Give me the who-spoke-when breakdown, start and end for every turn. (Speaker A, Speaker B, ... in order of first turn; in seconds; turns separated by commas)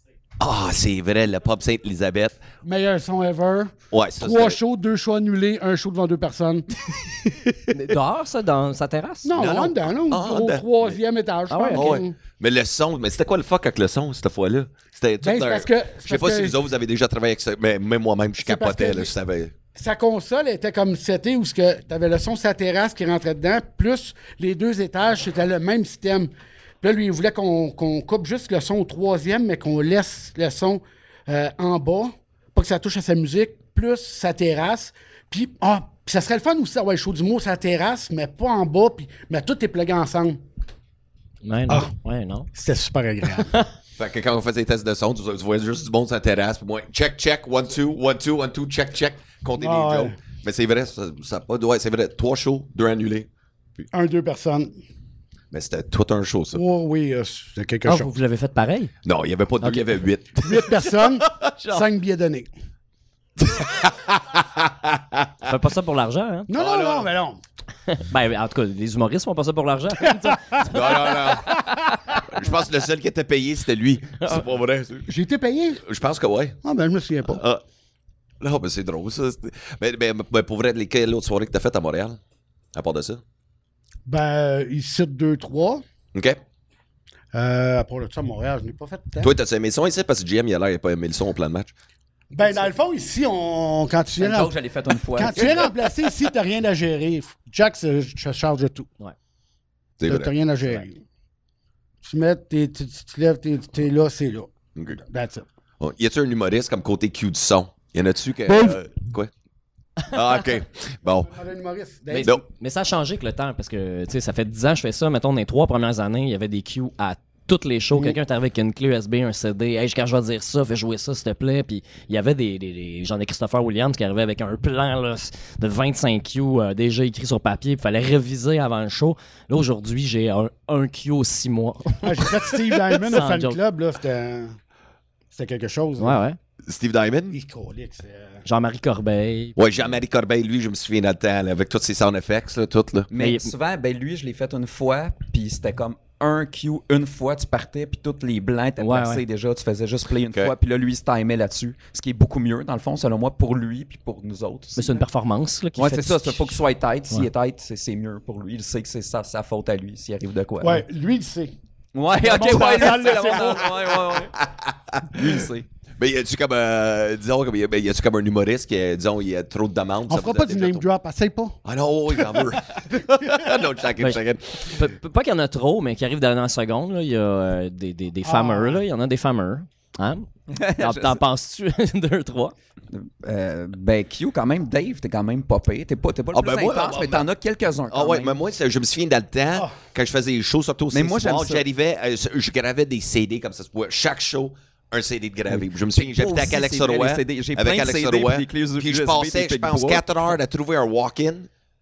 Speaker A: 0.4-2.4, Speaker B: 2.6-7.5, Speaker A: 3.9-4.6, Speaker C: 7.7-9.3, Speaker B: 9.2-12.1, Speaker A: 9.4-11.0, Speaker C: 11.5-11.9, Speaker A: 11.7-19.5, Speaker B: 15.2-16.6, Speaker B: 18.4-19.1, Speaker B: 19.8-26.3, Speaker B: 26.8-40.4, Speaker C: 41.4-42.5, Speaker B: 42.5-43.5, Speaker A: 44.0-53.3, Speaker B: 49.6-50.1, Speaker B: 53.9-54.8, Speaker A: 55.5-56.6, Speaker B: 56.5-58.1, Speaker C: 57.9-58.9, Speaker A: 59.0-61.5, Speaker B: 60.4-62.5, Speaker A: 63.4-65.3, Speaker C: 65.5-66.5, Speaker B: 66.5-67.4, Speaker A: 66.5-67.1, Speaker C: 67.9-70.8, Speaker B: 70.0-72.2, Speaker A: 70.6-75.1, Speaker B: 75.1-75.8, Speaker A: 75.9-76.6, Speaker B: 76.6-77.4, Speaker A: 77.3-77.6, Speaker A: 78.4-82.2, Speaker A: 82.8-83.2, Speaker B: 84.0-85.8, Speaker A: 86.1-86.4, Speaker B: 87.3-89.3, Speaker A: 89.2-91.7, Speaker B: 92.3-94.5, Speaker D: 94.2-95.7, Speaker B: 95.2-98.9, Speaker A: 95.3-95.7, Speaker A: 100.0-100.3, Speaker B: 100.1-101.0, Speaker B: 102.0-104.5, Speaker A: 104.8-105.0, Speaker B: 105.1-105.5, Speaker A: 105.8-109.3, Speaker A: 110.1-111.4, Speaker B: 111.3-112.4, Speaker C: 112.1-133.6, Speaker B: 132.0-134.6, Speaker B: 135.3-136.2, Speaker C: 136.0-136.4, Speaker A: 136.7-137.4, Speaker B: 137.3-138.4, Speaker C: 138.4-139.7, Speaker A: 139.6-143.1, Speaker D: 143.1-155.0, Speaker C: 143.2-143.5, Speaker C: 148.8-149.2, Speaker C: 154.8-157.3, Speaker D: 155.8-160.8, Speaker B: 160.6-161.6, Speaker D: 161.9-164.4, Speaker B: 162.2-163.8, Speaker A: 163.4-163.8, Speaker A: 164.4-165.4, Speaker D: 165.1-165.7, Speaker A: 166.0-170.8, Speaker B: 170.1-171.6, Speaker A: 171.7-174.8, Speaker B: 172.2-172.6, Speaker C: 174.0-182.5, Speaker B: 178.2-178.8, Speaker D: 180.5-181.2, Speaker D: 182.9-188.4, Speaker A: 186.3-187.2, Speaker A: 187.9-201.5, Speaker D: 190.9-191.6, Speaker D: 195.5-200.1